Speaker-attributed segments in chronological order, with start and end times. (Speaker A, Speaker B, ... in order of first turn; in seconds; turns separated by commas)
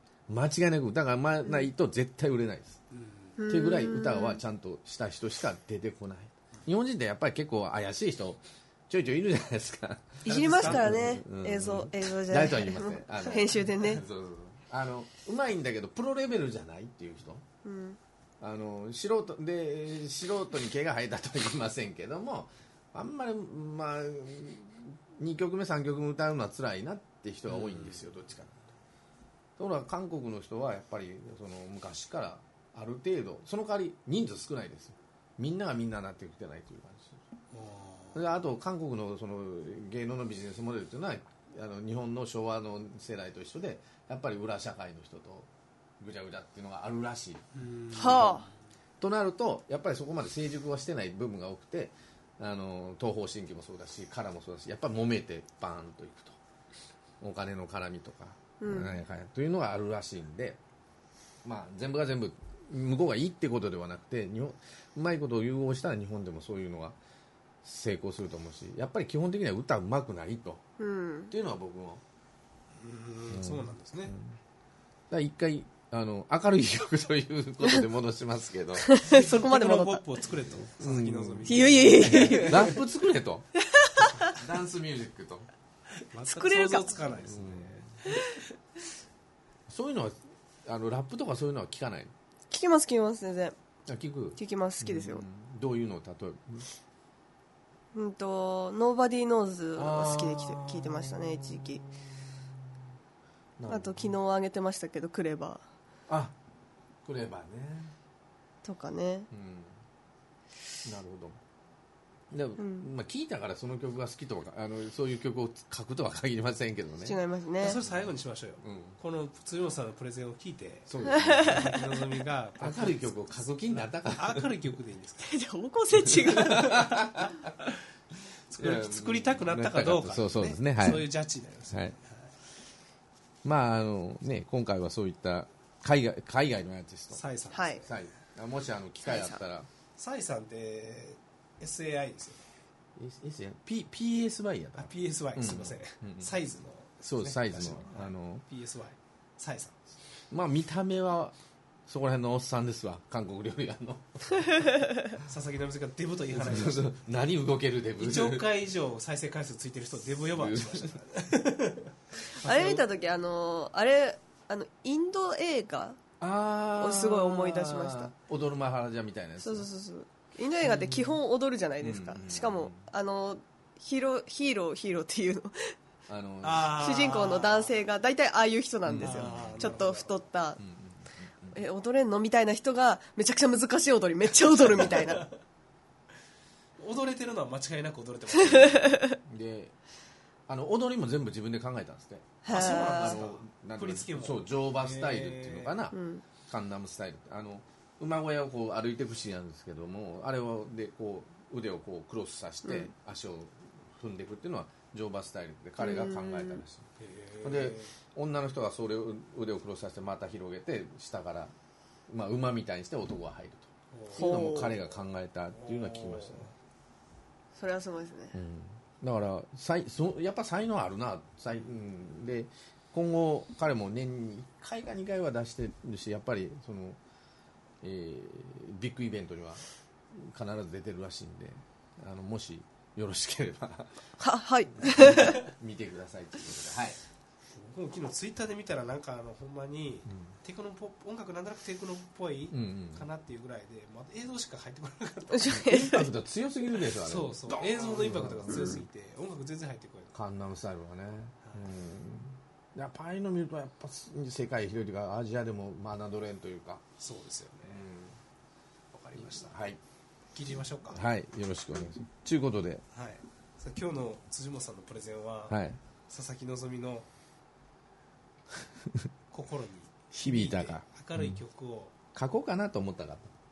Speaker A: 0.3-2.8, Speaker B: 2.9-3.4, Speaker C: 3.4-4.4, Speaker A: 3.5-17.4, Speaker B: 10.2-11.1, Speaker C: 10.2-14.0, Speaker C: 17.6-18.0, Speaker A: 18.4-28.5, Speaker B: 27.5-28.0, Speaker A: 29.6-37.2, Speaker B: 37.5-38.2, Speaker A: 38.1-48.4, Speaker B: 47.5-48.5, Speaker C: 47.9-48.5, Speaker A: 49.0-56.4, Speaker A: 57.2-60.6, Speaker C: 58.6-59.0, Speaker A: 61.4-67.0, Speaker A: 67.6-70.6, Speaker C: 70.8-71.3, Speaker A: 71.3-72.0, Speaker B: 72.8-74.1, Speaker A: 73.3-74.4, Speaker A: 75.1-79.0, Speaker C: 78.8-80.0, Speaker B: 79.0-82.7, Speaker A: 80.8-83.5, Speaker C: 81.5-82.8, Speaker C: 83.7-84.3, Speaker A: 84.3-85.5, Speaker B: 86.1-88.4, Speaker C: 86.3-86.9, Speaker A: 87.3-87.9, Speaker A: 89.7-92.1, Speaker C: 92.5-93.5, Speaker A: 93.9-96.7, Speaker C: 94.4-95.2, Speaker C: 97.9-101.8, Speaker A: 99.8-102.7, Speaker A: 103.6-104.2, Speaker C: 103.7-105.6, Speaker A: 106.1-106.4, Speaker A: 107.0-108.0, Speaker C: 108.6-109.3, Speaker A: 109.3-109.8, Speaker A: 110.8-111.4, Speaker A: 112.3-117.2, Speaker C: 112.6-112.9, Speaker C: 117.0-117.8, Speaker B: 117.6-123.4, Speaker A: 117.8-118.1, Speaker A: 118.6-119.0, Speaker A: 120.9-121.8, Speaker C: 121.1-121.7, Speaker A: 122.6-124.5, Speaker B: 124.0-125.3, Speaker C: 125.2-127.1, Speaker A: 126.0-127.5, Speaker B: 126.6-127.7, Speaker B: 128.5-132.3, Speaker A: 128.6-131.1, Speaker A: 131.7-132.0, Speaker A: 133.4-137.2, Speaker B: 137.1-137.9, Speaker C: 137.5-137.8, Speaker A: 137.8-139.7, Speaker C: 139.0-139.4, Speaker B: 140.0-142.4, Speaker A: 143.0-146.3, Speaker B: 144.8-149.8, Speaker A: 147.1-148.4, Speaker A: 150.3-151.3, Speaker A: 151.9-154.7, Speaker B: 155.1-156.9, Speaker A: 156.3-158.5, Speaker B: 158.0-161.9, Speaker A: 160.3-160.9, Speaker C: 162.2-166.0, Speaker B: 162.5-162.8, Speaker A: 166.2-169.7, Speaker C: 166.8-168.1, Speaker C: 169.4-175.8, Speaker A: 170.6-171.1, Speaker A: 171.8-172.9, Speaker A: 176.1-176.9, Speaker B: 176.4-177.8, Speaker C: 176.7-180.6, Speaker A: 178.9-179.8, Speaker B: 179.0-180.2, Speaker A: 180.6-181.6, Speaker C: 181.5-185.3, Speaker B: 184.8-185.3, Speaker B: 186.8-189.1, Speaker C: 188.6-189.2, Speaker A: 189.2-189.7, Speaker A: 190.5-206.9, Speaker C: 192.4-193.2, Speaker B: 192.5-195.8, Speaker C: 195.9-196.2, Speaker C: 202.6-202.9, Speaker C: 205.8-206.6, Speaker B: 207.0-207.9, Speaker A: 207.4-211.5, Speaker A: 212.1-216.5, Speaker B: 213.9-214.8, Speaker C: 214.1-214.8, Speaker B: 215.5-216.5, Speaker C: 217.6-218.4, Speaker A: 218.3-227.0, Speaker A: 227.8-234.0, Speaker C: 234.2-235.5, Speaker A: 234.7-237.0, Speaker B: 237.5-245.6, Speaker A: 240.1-240.3, Speaker A: 242.5-243.1, Speaker C: 245.3-246.1, Speaker A: 245.5-248.8, Speaker B: 246.9-250.2, Speaker A: 250.1-256.8, Speaker B: 251.4-251.7, Speaker B: 257.0-257.9, Speaker A: 257.6-258.2, Speaker B: 258.9-259.7, Speaker A: 259.1-259.8, Speaker B: 260.3-261.0, Speaker A: 260.5-262.8, Speaker B: 262.9-267.1, Speaker A: 265.5-265.8, Speaker B: 269.3-271.9, Speaker A: 270.1-271.4, Speaker A: 272.1-273.3